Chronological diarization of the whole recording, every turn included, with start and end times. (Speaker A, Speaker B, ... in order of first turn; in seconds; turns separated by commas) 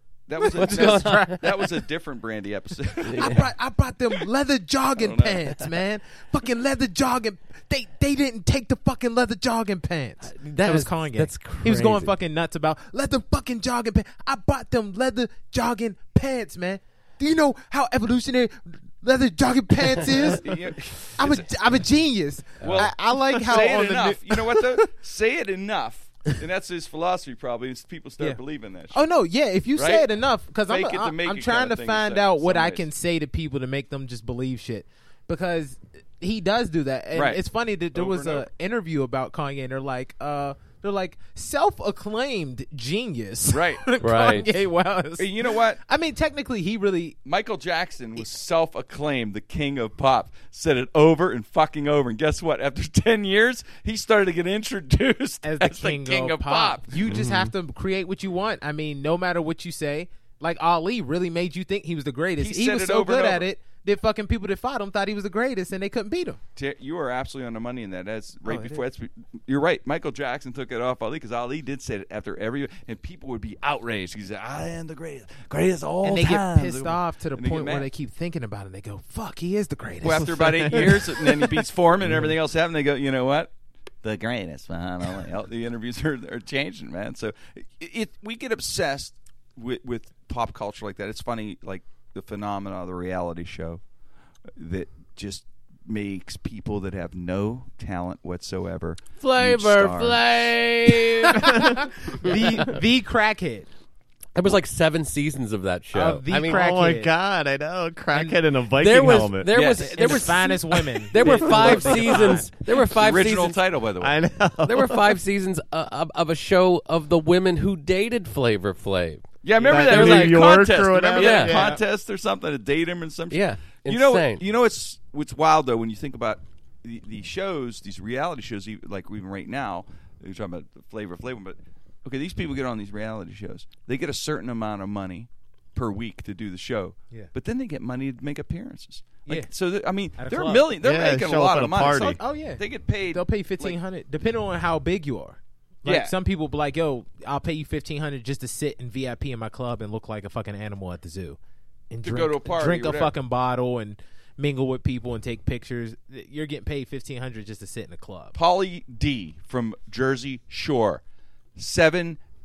Speaker A: 0.3-3.4, Speaker B: 0.4-1.7, Speaker C: 0.5-1.4, Speaker C: 3.0-3.4, Speaker B: 3.1-24.8, Speaker A: 5.0-5.6, Speaker C: 10.2-12.1, Speaker A: 20.3-21.5, Speaker A: 22.6-29.0, Speaker C: 22.6-22.9, Speaker B: 28.9-47.2, Speaker A: 29.7-30.1, Speaker A: 30.7-32.9, Speaker A: 37.1-37.4, Speaker A: 37.9-38.5, Speaker A: 43.5-43.8, Speaker C: 44.0-44.5, Speaker A: 45.2-45.8, Speaker A: 47.2-57.1, Speaker B: 55.4-66.4, Speaker D: 57.0-57.5, Speaker A: 62.4-63.5, Speaker A: 66.5-77.9, Speaker B: 68.5-68.8, Speaker B: 76.0-81.4, Speaker A: 80.0-83.5, Speaker A: 84.0-93.8, Speaker A: 94.5-100.2, Speaker C: 99.2-102.7, Speaker B: 101.3-103.7, Speaker C: 104.3-106.6, Speaker B: 105.9-107.1, Speaker D: 106.5-109.5, Speaker B: 108.1-108.4, Speaker C: 108.8-113.6, Speaker A: 109.5-110.4, Speaker B: 109.8-112.5, Speaker A: 111.6-114.2, Speaker D: 114.0-115.2, Speaker C: 114.6-121.7, Speaker A: 119.4-143.8, Speaker D: 119.6-121.8, Speaker C: 123.3-124.4, Speaker B: 140.2-140.7, Speaker D: 140.8-142.2, Speaker B: 141.9-151.4, Speaker A: 145.8-146.1, Speaker B: 151.9-158.3, Speaker A: 152.0-153.1, Speaker A: 158.3-161.0, Speaker A: 161.6-162.2